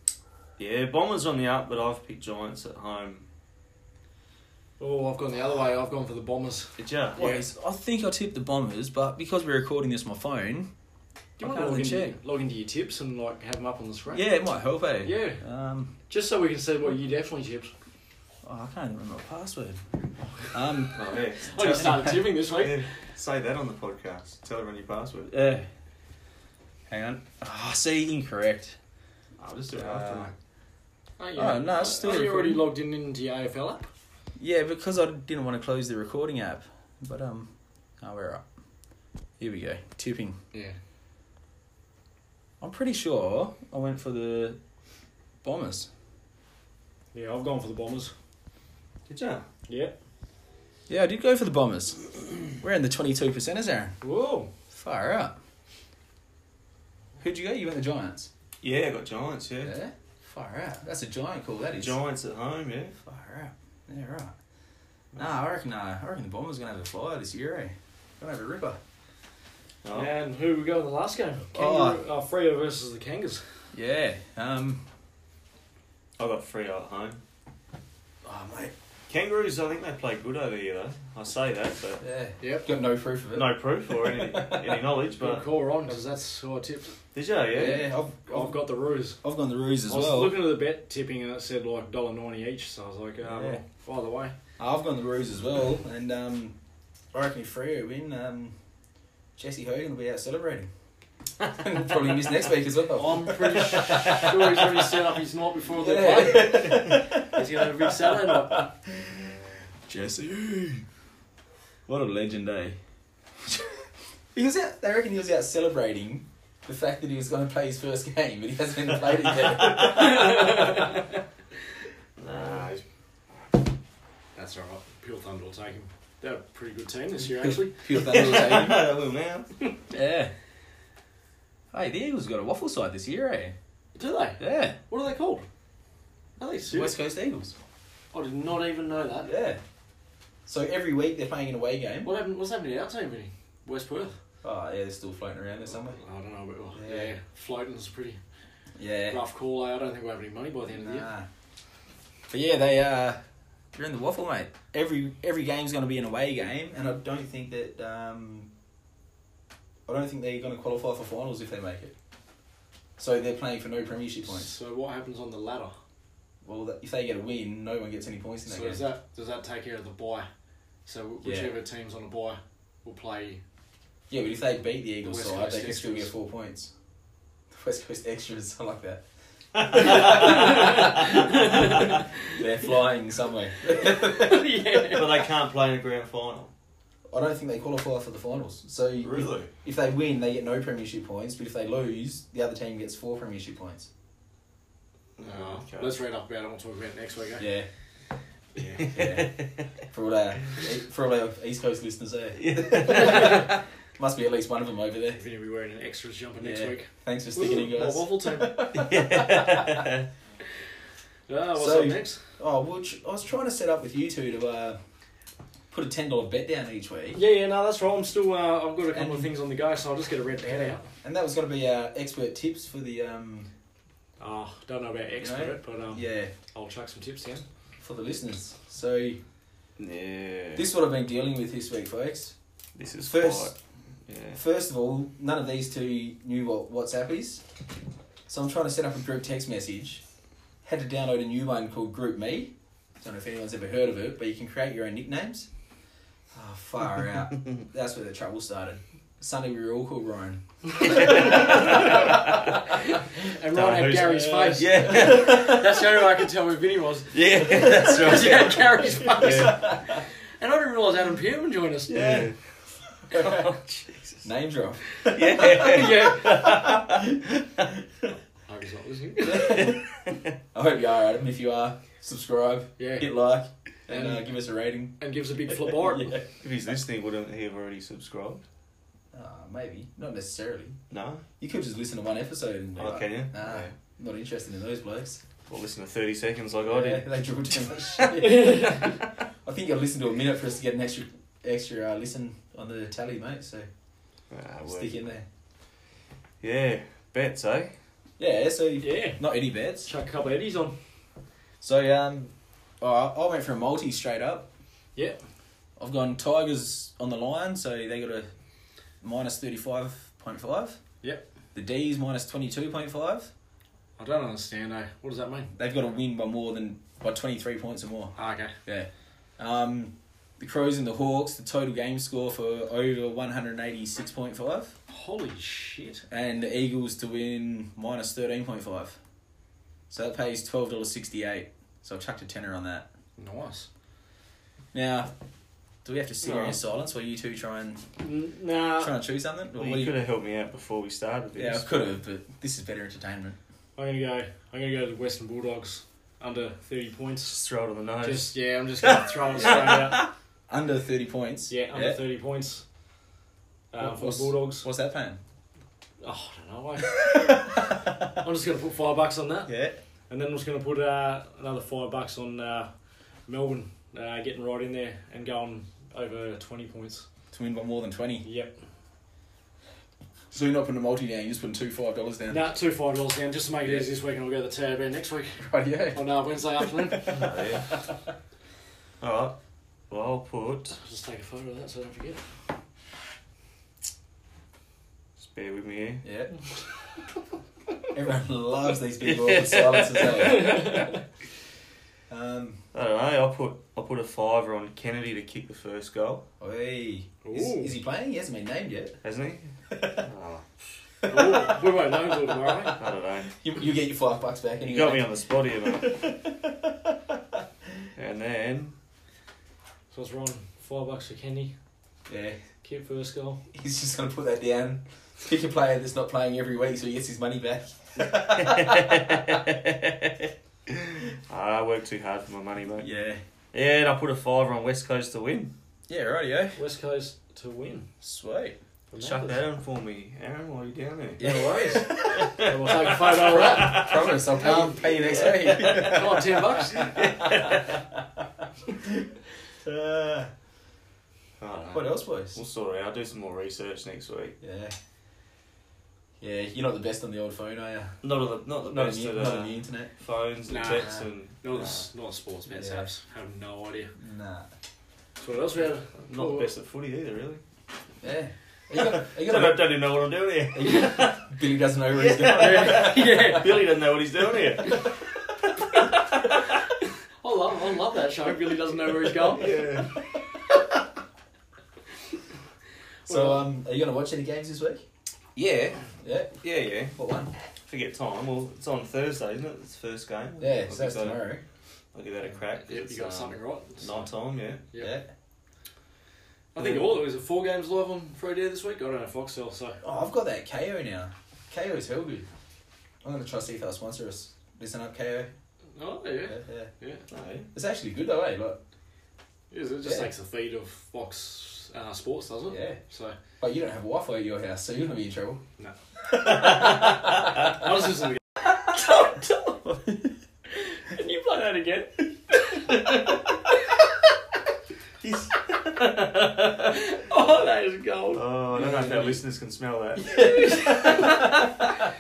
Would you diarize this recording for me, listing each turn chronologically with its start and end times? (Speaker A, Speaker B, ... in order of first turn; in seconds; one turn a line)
Speaker A: 0.6-3.2
Speaker B: 4.8-7.4
Speaker A: 6.8-7.3
Speaker C: 7.2-10.7
Speaker B: 11.4-14.3
Speaker C: 11.4-12.2
Speaker C: 14.1-15.9
Speaker B: 15.0-15.4
Speaker B: 16.1-17.7
Speaker C: 18.4-19.8
Speaker C: 20.5-22.3
Speaker A: 20.9-25.3
Speaker B: 21.5-22.9
Speaker C: 25.3-25.7
Speaker C: 26.9-28.8
Speaker A: 29.4-30.3
Speaker C: 29.7-30.3
Speaker B: 31.2-33.9
Speaker C: 31.4-32.7
Speaker C: 34.4-38.4
Speaker C: 39.4-40.4
Speaker C: 42.6-44.6
Speaker C: 45.4-45.9
Speaker B: 47.1-48.1
Speaker A: 49.1-49.5
Speaker B: 49.7-50.0
Speaker C: 50.9-54.0
Speaker B: 54.0-54.5
Speaker C: 54.7-55.4
Speaker C: 57.2-58.3
Speaker A: 58.6-59.8
Speaker C: 59.6-62.0
Speaker A: 61.8-63.0
Speaker C: 63.0-64.3
Speaker C: 65.2-68.8
Speaker A: 69.8-70.1
Speaker B: 69.9-73.4
Speaker C: 71.5-72.0
Speaker C: 73.7-74.8
Speaker A: 76.2-77.2
Speaker C: 78.2-78.7
Speaker A: 79.1-82.0
Speaker C: 82.0-84.8
Speaker B: 82.4-82.7
Speaker A: 83.3-85.4
Speaker B: 85.2-87.0
Speaker A: 87.1-87.9
Speaker C: 87.5-88.6
Speaker B: 88.3-89.2
Speaker C: 89.2-90.5
Speaker B: 89.9-94.3
Speaker C: 93.2-93.6
Speaker C: 94.6-96.6
Speaker C: 97.1-98.6
Speaker C: 99.4-100.7
Speaker C: 101.5-104.3
Speaker B: 102.9-108.7
Speaker A: 103.9-104.3
Speaker C: 105.8-110.8
Speaker C: 111.9-112.8
Speaker C: 113.5-120.8
Speaker A: 119.6-120.2
Speaker B: 119.8-121.0
Speaker A: 122.2-122.8
Speaker B: 124.4-127.8
Speaker C: 127.4-128.9
Speaker A: 127.9-129.5
Speaker C: 129.9-130.3
Speaker C: 131.7-133.6
Speaker B: 133.9-135.4
Speaker C: 134.4-134.8
Speaker B: 136.4-137.0
Speaker C: 136.7-137.6
Speaker B: 138.1-139.3
Speaker C: 139.2-139.6
Speaker C: 140.5-142.1
Speaker B: 142.0-144.2
Speaker C: 144.4-146.0
Speaker B: 145.9-148.2
Speaker C: 146.7-147.1
Speaker C: 148.8-149.2
Speaker B: 149.1-151.1
Speaker C: 150.7-151.3
Speaker C: 152.3-153.2
Speaker C: 153.7-158.5
Speaker C: 159.9-161.9
Speaker C: 163.0-164.5
Speaker B: 164.3-165.8
Speaker C: 166.4-168.8
Speaker B: 168.5-170.3
Speaker B: 170.9-173.4
Speaker C: 171.2-171.5
Speaker C: 174.1-176.7
Speaker B: 175.0-176.1
Speaker C: 177.5-179.0
Speaker A: 179.6-180.8
Speaker C: 179.6-184.8
Speaker B: 180.0-182.0
Speaker B: 183.7-185.2
Speaker A: 184.9-186.5
Speaker C: 187.1-193.9
Speaker A: 189.0-189.5
Speaker A: 195.2-195.9
Speaker B: 195.2-197.5
Speaker C: 197.4-197.7
Speaker B: 198.6-198.9
Speaker A: 198.8-199.7
Speaker C: 198.9-205.2
Speaker A: 202.4-203.5
Speaker B: 205.2-208.9
Speaker C: 206.4-209.8
Speaker A: 208.7-210.1
Speaker B: 211.3-212.2
Speaker C: 211.6-214.8
Speaker C: 215.7-217.2
Speaker B: 217.2-220.8
Speaker C: 218.9-219.3
Speaker C: 221.0-223.5
Speaker B: 224.2-227.4
Speaker C: 225.2-226.3
Speaker C: 227.8-229.2
Speaker A: 229.8-230.7
Speaker C: 230.6-232.3
Speaker A: 232.8-233.6
Speaker C: 233.1-233.5
Speaker A: 234.1-234.4
Speaker C: 234.3-237.4
Speaker C: 238.3-240.0
Speaker C: 240.7-245.5
Speaker C: 246.3-252.1
Speaker A: 250.8-252.3
Speaker B: 251.1-262.1
Speaker A: 253.5-255.8
Speaker C: 254.2-255.6
Speaker A: 257.1-259.8
Speaker C: 257.6-260.0
Speaker A: 261.9-262.4
Speaker C: 261.9-262.3
Speaker C: 263.1-263.5
Speaker A: 263.1-264.2
Speaker C: 264.2-267.8
Speaker A: 265.0-267.2
Speaker B: 265.3-266.6
Speaker B: 268.5-269.7
Speaker C: 269.2-269.8
Speaker A: 269.5-270.3
Speaker C: 270.5-275.0
Speaker B: 272.8-273.1
Speaker B: 273.9-274.2
Speaker B: 275.0-276.2
Speaker C: 275.5-276.2
Speaker A: 276.4-278.4
Speaker C: 279.1-280.8
Speaker A: 280.9-281.2
Speaker C: 281.4-285.2
Speaker A: 282.8-283.7
Speaker A: 285.5-287.1
Speaker C: 286.7-288.9
Speaker A: 287.9-288.3
Speaker B: 288.2-288.9
Speaker C: 289.4-293.7
Speaker A: 294.3-295.0
Speaker C: 294.7-295.2
Speaker A: 296.4-297.7
Speaker C: 298.2-299.9
Speaker B: 298.8-299.2
Speaker B: 299.8-300.8
Speaker C: 301.6-304.5
Speaker C: 305.8-308.3
Speaker C: 309.0-310.8
Speaker C: 311.6-313.3
Speaker B: 314.0-315.5
Speaker C: 315.6-318.1
Speaker B: 318.2-318.6
Speaker C: 318.6-324.8
Speaker B: 324.9-326.0
Speaker C: 326.1-329.0
Speaker C: 329.9-332.9
Speaker B: 333.2-333.7
Speaker C: 334.7-335.1
Speaker C: 335.9-337.8
Speaker A: 336.2-336.6
Speaker B: 338.0-338.9
Speaker C: 338.8-339.9
Speaker A: 339.6-341.9
Speaker C: 341.4-343.4
Speaker B: 343.8-347.3
Speaker A: 347.3-350.1
Speaker B: 348.0-350.0
Speaker C: 349.4-352.0
Speaker B: 351.5-352.6
Speaker B: 353.7-354.7
Speaker C: 353.8-355.2
Speaker B: 356.0-357.4
Speaker C: 356.9-358.1
Speaker B: 358.2-359.5
Speaker C: 359.5-359.8
Speaker B: 360.1-362.7
Speaker B: 363.3-367.1
Speaker C: 367.3-368.3
Speaker B: 368.2-368.5
Speaker C: 370.3-372.5
Speaker B: 372.3-377.2
Speaker C: 375.4-376.1
Speaker C: 376.6-377.8
Speaker A: 377.1-377.7
Speaker A: 379.0-379.4
Speaker A: 379.9-380.8
Speaker B: 380.8-382.2
Speaker A: 385.2-386.0
Speaker C: 386.0-386.3
Speaker C: 387.9-390.9
Speaker A: 389.0-390.5
Speaker B: 390.2-391.0
Speaker C: 392.1-392.6
Speaker A: 392.7-396.2
Speaker C: 396.4-399.0
Speaker B: 397.2-397.8
Speaker A: 399.0-400.5
Speaker C: 399.7-400.0
Speaker C: 401.0-401.9
Speaker B: 401.1-402.8
Speaker A: 402.7-403.4
Speaker C: 403.4-405.1
Speaker A: 404.6-406.0
Speaker C: 405.7-407.4
Speaker A: 408.0-408.7
Speaker B: 409.9-411.5
Speaker C: 412.1-412.4
Speaker B: 412.6-413.4
Speaker C: 413.5-419.3
Speaker A: 418.1-422.9
Speaker C: 422.8-423.2
Speaker A: 423.5-425.5
Speaker C: 425.9-426.6
Speaker B: 426.6-427.9
Speaker C: 428.0-428.6
Speaker B: 428.9-429.4
Speaker A: 429.0-437.8
Speaker C: 431.2-432.3
Speaker B: 431.2-434.8
Speaker C: 433.1-436.5
Speaker B: 435.5-437.0
Speaker C: 437.0-437.7
Speaker C: 438.8-439.1
Speaker C: 439.6-440.3
Speaker A: 441.4-444.4
Speaker C: 441.7-442.4
Speaker C: 444.4-444.7
Speaker C: 446.2-448.0
Speaker A: 448.0-451.9
Speaker C: 448.6-449.9
Speaker B: 450.5-453.9
Speaker C: 450.7-451.1
Speaker C: 452.5-452.9
Speaker C: 454.0-454.5
Speaker B: 455.2-456.5
Speaker A: 456.1-457.4
Speaker C: 458.0-459.8
Speaker A: 458.7-461.3
Speaker C: 460.6-463.4
Speaker A: 461.9-465.0
Speaker B: 462.3-463.6
Speaker B: 465.8-466.5
Speaker B: 467.2-469.6
Speaker A: 469.3-469.9
Speaker B: 473.1-473.4
Speaker C: 473.1-476.4
Speaker A: 476.4-477.0
Speaker C: 476.9-477.3
Speaker A: 477.7-481.2
Speaker C: 480.4-481.4
Speaker A: 481.9-484.6
Speaker B: 482.7-484.1
Speaker C: 484.8-485.1
Speaker B: 486.6-489.8
Speaker A: 486.6-486.9
Speaker C: 489.8-492.3
Speaker C: 493.0-495.3
Speaker B: 495.8-497.0
Speaker C: 496.3-496.7
Speaker A: 497.1-497.5
Speaker C: 497.5-498.6
Speaker B: 499.5-503.1
Speaker C: 499.8-500.1
Speaker C: 502.5-502.8
Speaker C: 503.4-505.4
Speaker B: 506.4-509.6
Speaker C: 509.7-510.1
Speaker B: 510.6-512.7
Speaker A: 515.0-516.8
Speaker B: 516.7-518.2
Speaker A: 518.1-520.7
Speaker C: 518.5-519.2
Speaker B: 520.0-521.7
Speaker C: 520.0-521.8